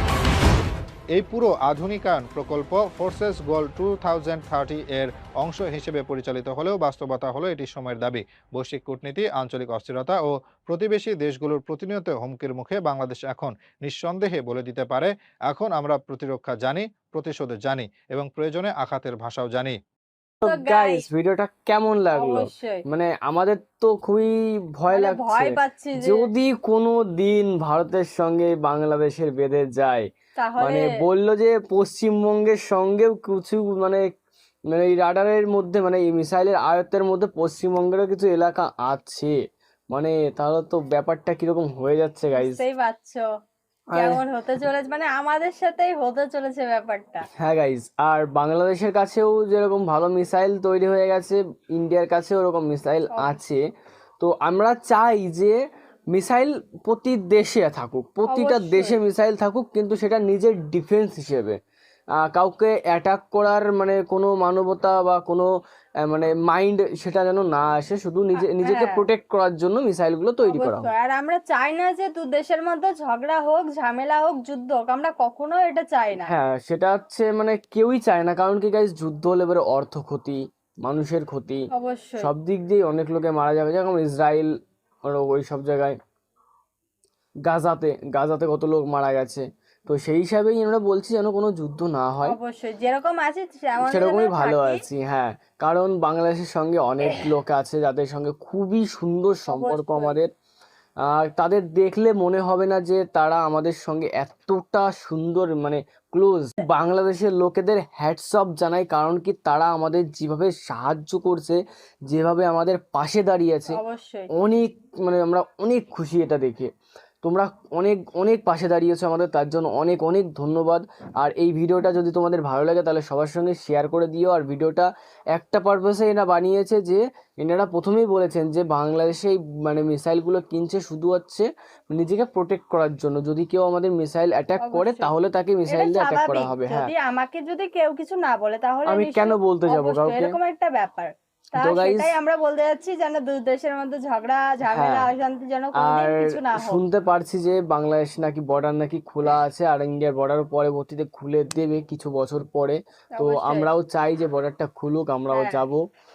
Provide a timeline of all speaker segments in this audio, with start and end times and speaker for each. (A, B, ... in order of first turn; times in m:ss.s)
0:01.1-0:19.8 A
0:20.4-0:30.0 B
0:20.4-0:21.0 C
0:22.1-0:22.8 C
0:24.9-0:26.3 C
0:30.4-0:30.9 C
0:30.6-0:34.1 B
0:34.7-0:39.3 B
0:39.9-0:42.6 B
0:42.3-0:43.2 C
0:43.9-0:44.2 B
0:43.9-0:47.2 C
0:47.4-0:53.6 B
0:53.1-0:53.4 C
0:54.2-0:55.6 B
0:56.1-1:01.6 B
0:58.3-0:59.0 C
1:02.3-1:05.4 B
1:06.0-1:10.9 B
1:08.4-1:09.1 C
1:10.4-1:16.3 C
1:16.2-1:21.6 B
1:21.7-1:22.3 C
1:22.2-1:24.5 B
1:25.0-1:26.0 B
1:27.5-1:32.4 B
1:32.2-1:34.8 C
1:33.8-1:40.3 B
1:39.5-1:40.2 C
1:41.0-1:53.8 B
1:53.7-1:54.3 C
1:54.3-1:56.7 B
1:57.2-2:16.9 B
2:14.6-2:15.1 C
2:15.7-2:26.8 C
2:18.8-2:20.4 B
2:21.6-2:22.1 B
2:24.7-2:25.1 B
2:25.7-2:35.8 B
2:33.1-2:33.7 C
2:35.3-2:35.6 C